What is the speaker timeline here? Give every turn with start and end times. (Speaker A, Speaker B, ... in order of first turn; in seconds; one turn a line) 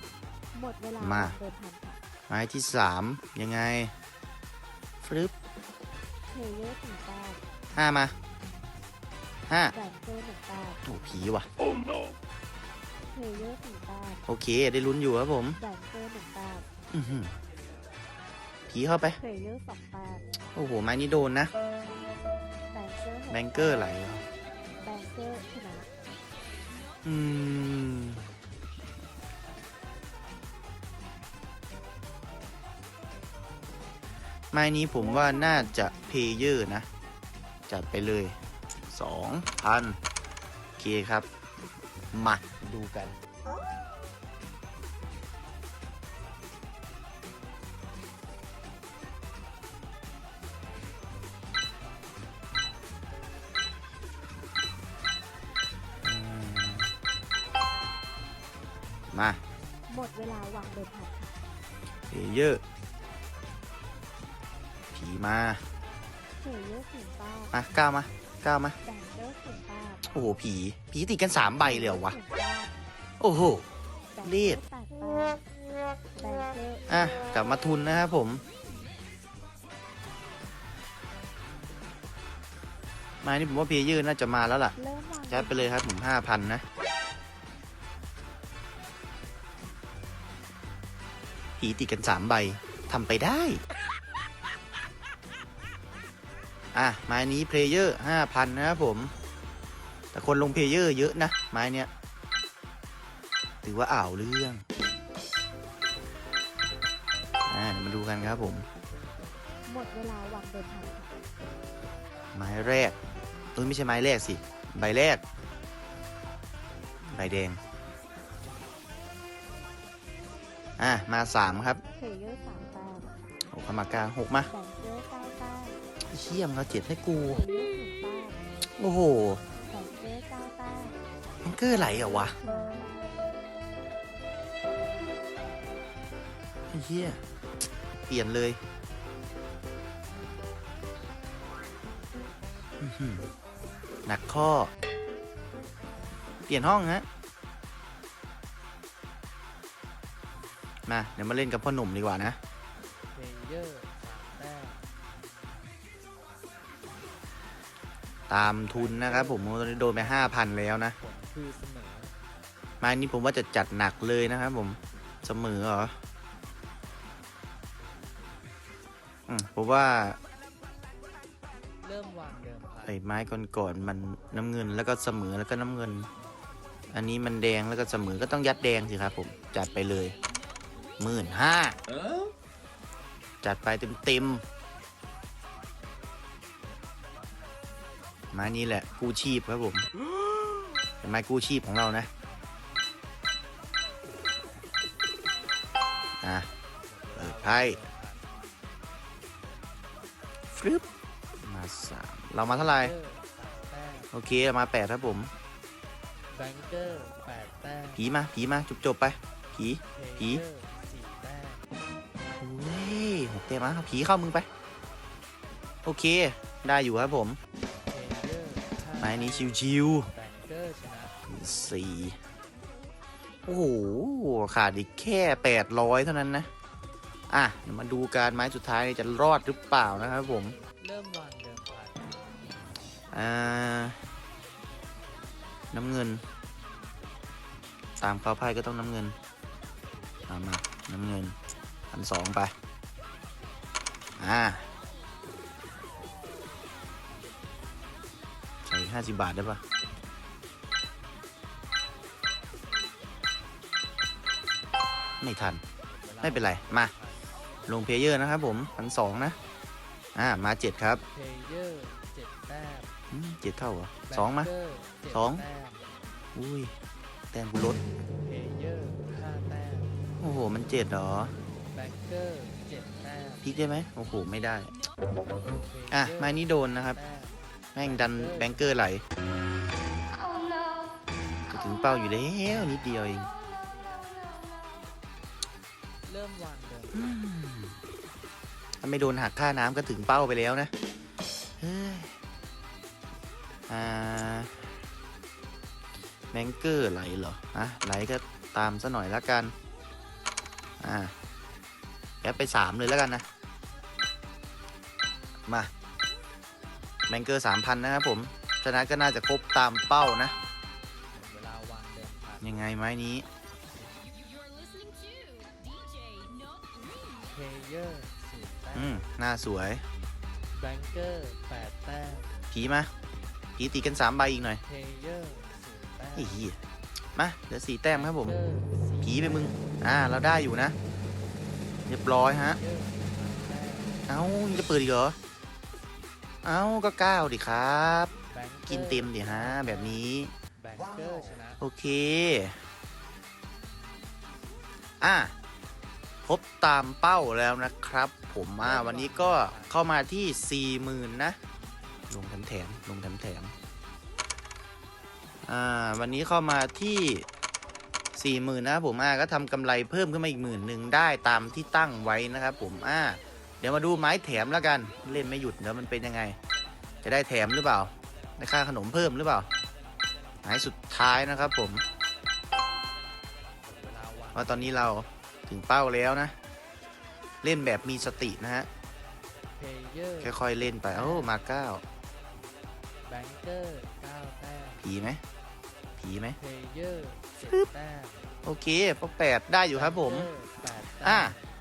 Speaker A: 0.5-2.0
Speaker B: 1.0-1.4
Speaker B: 2.3-3.9
Speaker B: 5.0-5.3
Speaker A: 6.3-7.4
Speaker B: 7.7-8.1
Speaker B: 9.5-9.7
Speaker A: 9.7-10.8
Speaker B: 10.8-11.5
Speaker A: 13.1-14.2
Speaker B: 14.3-15.6
Speaker A: 15.6-16.7
Speaker B: 16.9-17.3
Speaker B: 18.7-19.2
Speaker A: 19.2-20.3
Speaker B: 20.5-21.5
Speaker A: 22.7-24.0
Speaker B: 23.3-24.2
Speaker A: 24.8-25.9
Speaker B: 27.0-28.2
Speaker B: 34.5-36.9
Speaker A: 35.0-36.2
Speaker B: 37.7-38.4
Speaker B: 38.9-40.0
Speaker B: 40.8-41.3
Speaker B: 42.1-43.2
Speaker B: 56.0-56.9
Speaker B: 59.1-59.4
Speaker A: 59.9-61.4
Speaker B: 62.1-62.6
Speaker B: 64.9-65.6
Speaker A: 66.4-67.5
Speaker B: 67.5-68.8
Speaker A: 68.8-70.1
Speaker B: 70.1-72.2
Speaker A: 71.6-72.7
Speaker B: 73.2-73.7
Speaker A: 74.1-75.4
Speaker B: 74.2-74.6
Speaker A: 76.2-76.9
Speaker B: 76.9-78.4
Speaker B: 83.2-84.8
Speaker A: 84.8-85.7
Speaker B: 85.3-86.6
Speaker B: 91.6-93.6
Speaker B: 96.7-99.1
Speaker B: 100.1-101.9
Speaker B: 103.6-104.6
Speaker B: 107.5-108.7
Speaker A: 109.7-111.2
Speaker B: 112.3-113.0
Speaker B: 113.6-115.2
Speaker B: 117.1-117.6
Speaker B: 120.8-121.8
Speaker A: 122.0-123.1
Speaker B: 123.5-124.5
Speaker A: 124.5-125.8
Speaker B: 126.1-127.5
Speaker A: 127.2-128.4
Speaker B: 128.8-129.4
Speaker A: 129.7-131.0
Speaker B: 131.4-132.4
Speaker A: 131.8-133.0
Speaker B: 136.7-137.2
Speaker B: 138.1-138.6
Speaker B: 142.8-143.2
Speaker B: 144.1-144.7
Speaker B: 146.5-147.1
Speaker B: 150.9-152.4
Speaker C: 153.1-154.8
Speaker B: 158.3-161.0
Speaker C: 158.7-160.4
Speaker C: 161.0-162.1
Speaker B: 162.8-165.9
Speaker B: 169.3-170.2
Speaker C: 171.8-173.0
Speaker B: 172.9-176.1
Speaker B: 176.9-180.2
Speaker B: 181.0-181.8
Speaker B: 183.4-184.4
Speaker B: 188.3-189.9
Speaker B: 191.0-192.1
Speaker B: 196.2-196.5
Speaker C: 197.0-198.3
Speaker B: 197.2-197.8
Speaker B: 200.5-200.8
Speaker B: 201.4-202.9
Speaker C: 202.4-204.1
Speaker B: 204.1-205.3
Speaker C: 206.3-208.1
Speaker B: 208.0-210.4
Speaker C: 209.9-211.6
Speaker B: 212.4-214.5
Speaker B: 215.8-217.4
Speaker C: 217.9-221.1
Speaker B: 219.0-220.1
Speaker B: 221.3-222.2
Speaker B: 223.5-226.5
Speaker B: 227.3-230.6
Speaker C: 230.8-232.1
Speaker B: 233.1-234.0
Speaker B: 235.7-236.2
Speaker B: 238.0-239.2
Speaker B: 240.3-241.3
Speaker B: 241.9-242.5
Speaker B: 244.2-244.7
Speaker B: 248.7-249.6
Speaker B: 255.2-255.6
Speaker C: 255.9-257.2
Speaker B: 256.2-256.9
Speaker B: 257.7-259.4
Speaker B: 260.1-261.0
Speaker C: 261.1-262.9
Speaker B: 263.1-264.5
Speaker C: 264.1-265.8
Speaker B: 265.1-265.4
Speaker B: 266.4-266.7
Speaker B: 267.3-267.8
Speaker C: 268.2-269.9
Speaker B: 270.2-271.3
Speaker C: 271.7-273.4
Speaker B: 273.4-274.8
Speaker C: 275.5-278.8
Speaker B: 275.9-277.0
Speaker B: 277.8-279.0
Speaker B: 281.5-283.3
Speaker C: 286.1-287.2
Speaker B: 286.9-287.8
Speaker B: 288.8-290.7
Speaker B: 291.6-292.1
Speaker B: 293.7-294.6
Speaker B: 296.3-299.5
Speaker B: 300.8-301.1
Speaker B: 302.2-303.3
Speaker B: 307.1-310.4
Speaker C: 311.1-312.7
Speaker B: 312.4-313.3
Speaker C: 317.3-319.0
Speaker B: 318.7-319.9
Speaker C: 320.5-322.3
Speaker B: 322.5-322.9
Speaker B: 323.6-324.6
Speaker C: 324.6-326.4
Speaker B: 326.2-326.6
Speaker B: 327.1-328.4
Speaker C: 327.9-329.6
Speaker B: 329.0-330.8
Speaker B: 331.9-332.6
Speaker C: 332.4-334.0
Speaker B: 334.1-335.2
Speaker B: 336.4-338.1
Speaker C: 338.3-340.1
Speaker B: 338.6-340.3
Speaker C: 340.6-341.6
Speaker B: 341.6-342.6
Speaker B: 345.0-345.3
Speaker B: 346.2-351.4
Speaker C: 348.6-349.9
Speaker B: 352.1-353.5
Speaker B: 355.4-357.3
Speaker B: 358.2-366.4
Speaker B: 367.0-369.5
Speaker B: 370.4-371.8
Speaker C: 373.7-374.8
Speaker B: 374.3-376.3
Speaker B: 377.4-378.7
Speaker C: 379.6-380.4
Speaker B: 380.2-381.8
Speaker C: 380.9-381.4
Speaker C: 383.1-384.9
Speaker B: 384.8-385.2
Speaker B: 386.0-386.4
Speaker C: 386.4-388.3
Speaker B: 388.4-390.3
Speaker C: 389.7-391.4
Speaker B: 391.0-391.4